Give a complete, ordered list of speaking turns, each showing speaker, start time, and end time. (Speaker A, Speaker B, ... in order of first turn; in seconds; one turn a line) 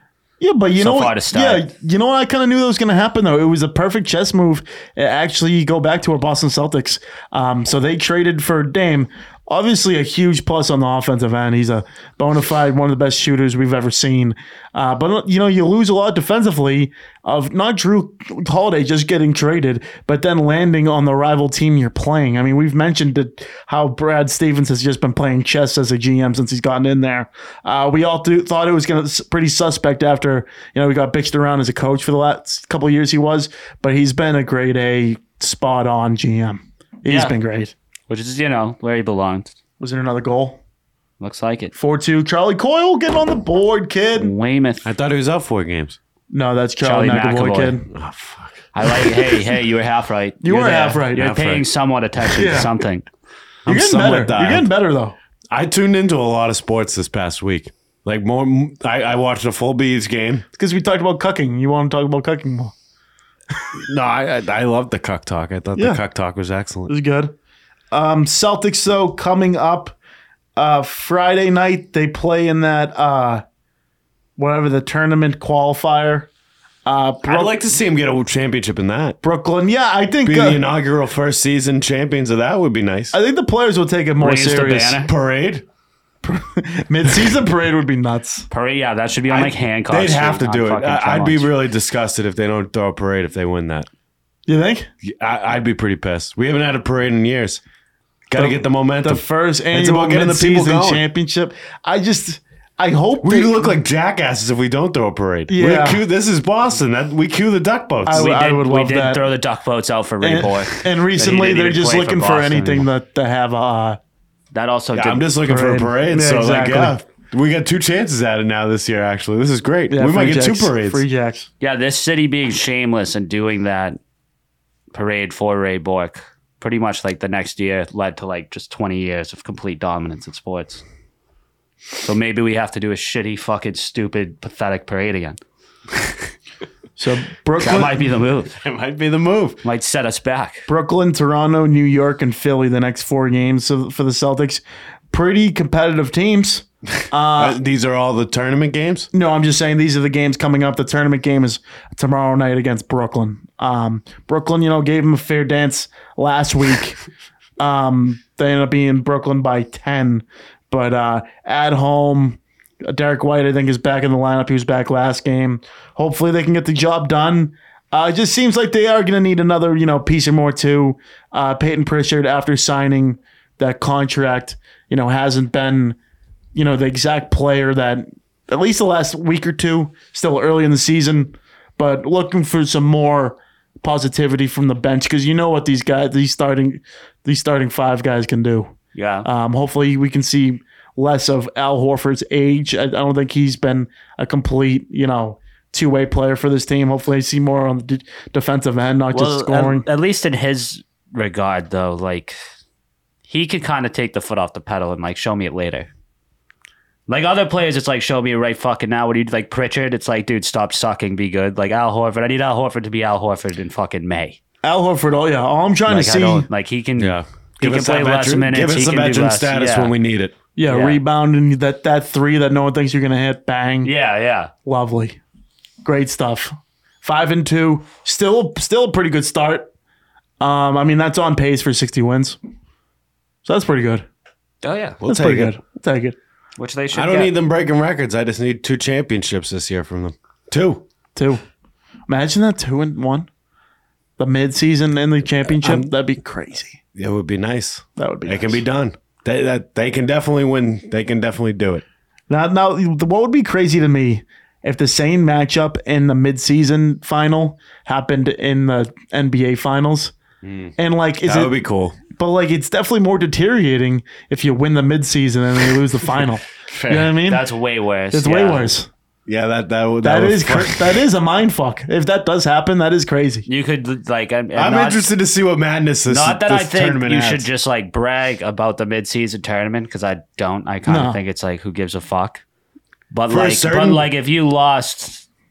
Speaker A: 0.4-37.7
Speaker B: 0.8-1.6
Speaker B: 37.1-37.4
Speaker B: 38.1-39.5
Speaker A: 39.8-40.6
Speaker B: 41.2-41.7
Speaker A: 41.7-44.3
Speaker B: 44.2-44.9
Speaker C: 44.8-46.0
Speaker A: 46.3-47.9
Speaker B: 46.8-47.8
Speaker C: 47.9-48.9
Speaker B: 48.7-53.0
Speaker A: 50.4-51.4
Speaker C: 51.2-51.6
Speaker A: 52.3-52.7
Speaker C: 53.6-54.7
Speaker A: 53.7-55.1
Speaker C: 55.5-60.4
Speaker A: 60.5-62.7
Speaker C: 63.8-66.9
Speaker A: 65.8-66.0
Speaker A: 66.9-67.3
Speaker A: 67.9-70.0
Speaker A: 70.5-73.4
Speaker A: 74.4-76.3
Speaker A: 76.8-77.6
Speaker C: 77.2-79.2
Speaker A: 79.2-80.6
Speaker C: 80.2-83.2
Speaker A: 83.1-85.0
Speaker B: 84.2-85.1
Speaker C: 85.0-85.6
Speaker A: 86.2-88.5
Speaker B: 88.5-91.5
Speaker C: 89.3-93.9
Speaker A: 94.5-94.9
Speaker C: 95.0-97.6
Speaker C: 98.3-101.0
Speaker A: 98.3-103.8
Speaker C: 103.2-108.3
Speaker A: 105.5-106.0
Speaker A: 108.0-109.2
Speaker B: 108.1-112.9
Speaker A: 110.2-114.0
Speaker B: 114.5-115.3
Speaker C: 114.9-121.0
Speaker A: 115.4-117.0
Speaker A: 119.9-121.5
Speaker B: 121.6-124.0
Speaker B: 124.9-130.8
Speaker B: 132.0-135.4
Speaker A: 137.0-137.9
Speaker B: 137.6-138.5
Speaker C: 137.6-137.9
Speaker C: 138.5-139.6
Speaker B: 139.6-140.7
Speaker A: 140.7-147.6
Speaker C: 147.3-149.1
Speaker A: 149.1-157.0
Speaker A: 157.6-176.0
Speaker A: 176.6-199.9
Speaker B: 188.9-189.3
Speaker B: 199.1-202.4
Speaker B: 203.3-205.9
Speaker B: 207.1-214.4
Speaker A: 214.6-216.5
Speaker B: 215.9-219.9
Speaker C: 217.0-220.3
Speaker A: 220.6-223.9
Speaker B: 220.7-221.0
Speaker B: 223.8-224.5
Speaker A: 224.7-225.2
Speaker A: 225.8-229.7
Speaker A: 230.4-232.4
Speaker A: 233.4-234.1
Speaker B: 234.6-235.0
Speaker C: 235.0-235.6
Speaker A: 235.0-236.2
Speaker B: 236.6-237.3
Speaker C: 236.9-240.8
Speaker A: 241.1-241.4
Speaker A: 242.1-243.3
Speaker A: 244.2-246.8
Speaker C: 245.6-245.9
Speaker C: 246.9-251.8
Speaker A: 248.0-248.6
Speaker A: 252.3-260.1
Speaker C: 260.4-262.0
Speaker A: 260.8-261.6
Speaker A: 262.1-267.4
Speaker C: 266.7-267.1
Speaker B: 267.2-268.7
Speaker A: 268.1-268.9
Speaker C: 269.3-271.0
Speaker A: 270.0-273.4
Speaker B: 273.5-275.1
Speaker C: 274.6-277.4
Speaker B: 276.1-282.4
Speaker A: 280.9-281.2
Speaker B: 283.1-285.2
Speaker C: 283.3-284.1